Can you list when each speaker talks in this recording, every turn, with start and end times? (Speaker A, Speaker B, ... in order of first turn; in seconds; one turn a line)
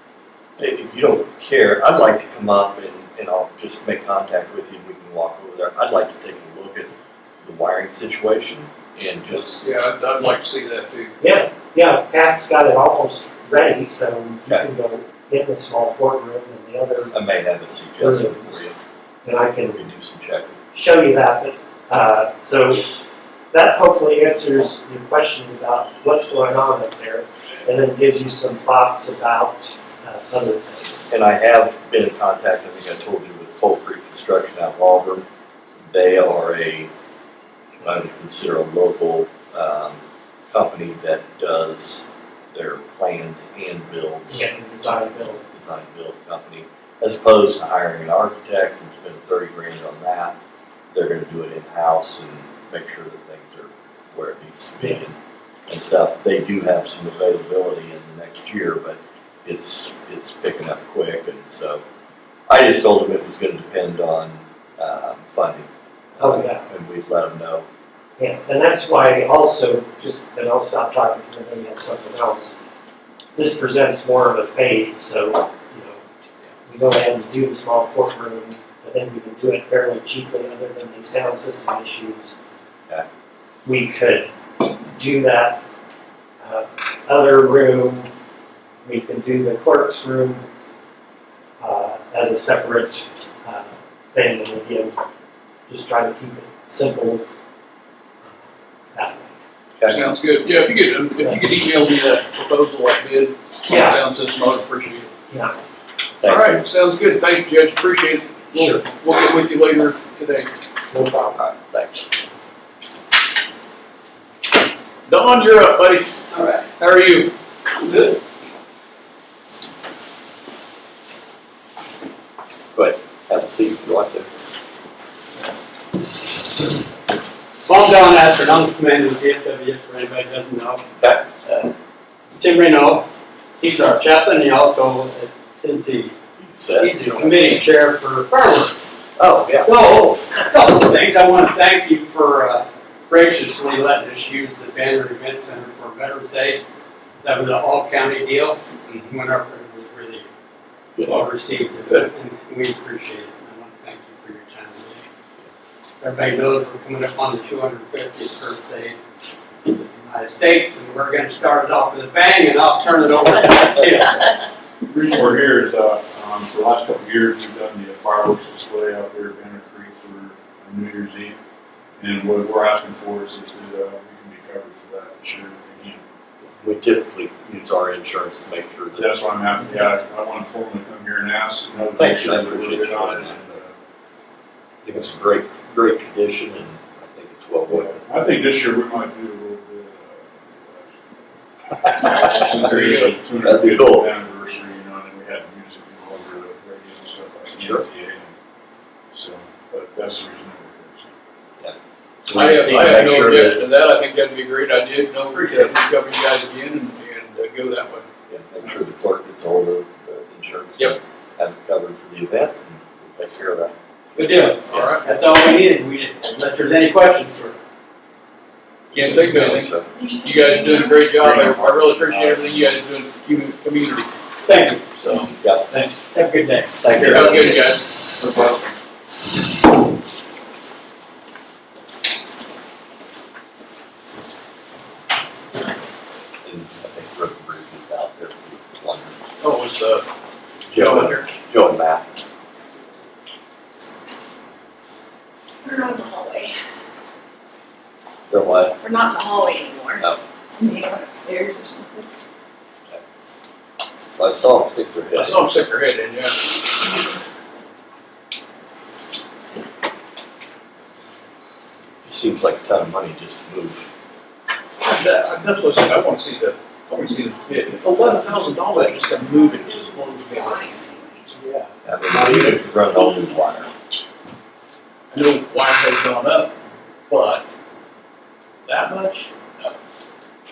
Speaker A: 0.6-9.6
Speaker B: 9.3-11.1
Speaker C: 11.2-17.1
Speaker A: 17.1-18.8
Speaker C: 18.0-18.6
Speaker C: 19.2-19.8
Speaker A: 19.7-20.6
Speaker C: 20.7-22.9
Speaker C: 23.5-31.1
Speaker A: 31.1-35.2
Speaker A: 35.9-36.9
Speaker A: 37.8-50.4
Speaker C: 44.3-45.4
Speaker A: 50.9-61.8
Speaker A: 62.5-67.7
Speaker C: 66.2-66.7
Speaker C: 68.2-72.5
Speaker C: 73.3-76.0
Speaker C: 76.7-82.3
Speaker C: 83.6-85.6
Speaker C: 86.4-88.1
Speaker C: 88.8-90.5
Speaker C: 91.6-95.0
Speaker C: 95.7-97.2
Speaker C: 98.9-99.3
Speaker B: 99.9-105.1
Speaker C: 103.7-104.0
Speaker C: 105.3-105.6
Speaker A: 106.2-106.6
Speaker B: 106.2-110.5
Speaker C: 108.5-108.8
Speaker C: 110.9-111.4
Speaker A: 111.3-112.0
Speaker B: 115.1-116.1
Speaker D: 116.3-116.8
Speaker B: 116.8-117.3
Speaker D: 117.7-118.2
Speaker A: 122.7-124.3
Speaker D: 127.6-130.8
Speaker A: 131.0-131.2
Speaker D: 131.4-131.7
Speaker D: 132.4-133.1
Speaker D: 133.6-136.1
Speaker A: 136.4-137.6
Speaker D: 136.8-138.8
Speaker A: 139.2-139.9
Speaker D: 139.6-146.6
Speaker D: 147.2-150.2
Speaker D: 151.0-155.1
Speaker D: 156.0-159.0
Speaker D: 159.7-164.3
Speaker E: 164.9-171.4
Speaker E: 172.0-176.0
Speaker A: 176.5-179.1
Speaker E: 179.0-183.8
Speaker A: 181.9-183.5
Speaker A: 184.8-188.0
Speaker E: 187.7-191.2
Speaker E: 191.9-198.3
Speaker A: 192.0-194.1
Speaker B: 192.6-193.1
Speaker A: 197.5-197.8
Speaker E: 199.1-201.1
Speaker A: 201.6-203.6
Speaker B: 202.3-208.0
Speaker D: 205.3-205.8
Speaker A: 208.3-213.7
Speaker D: 214.1-217.6
Speaker B: 214.7-215.1
Speaker A: 218.9-219.9
Speaker B: 218.9-224.1
Speaker F: 219.9-221.1
Speaker E: 221.1-222.5
Speaker D: 224.4-225.0
Speaker A: 225.0-225.7
Speaker D: 225.7-227.1
Speaker A: 226.8-227.8
Speaker B: 227.0-228.0
Speaker A: 236.4-239.3
Speaker B: 239.4-240.1
Speaker A: 240.7-242.1
Speaker B: 240.8-241.2
Speaker F: 245.6-246.5
Speaker A: 248.3-248.8
Speaker F: 248.8-250.1
Speaker F: 250.6-252.1
Speaker A: 254.2-255.4
Speaker B: 255.1-256.6
Speaker A: 262.0-263.8
Speaker B: 264.8-270.7
Speaker F: 268.2-271.3
Speaker B: 271.3-273.0
Speaker A: 271.8-273.7
Speaker B: 275.1-276.5
Speaker B: 277.1-277.5
Speaker B: 278.6-279.8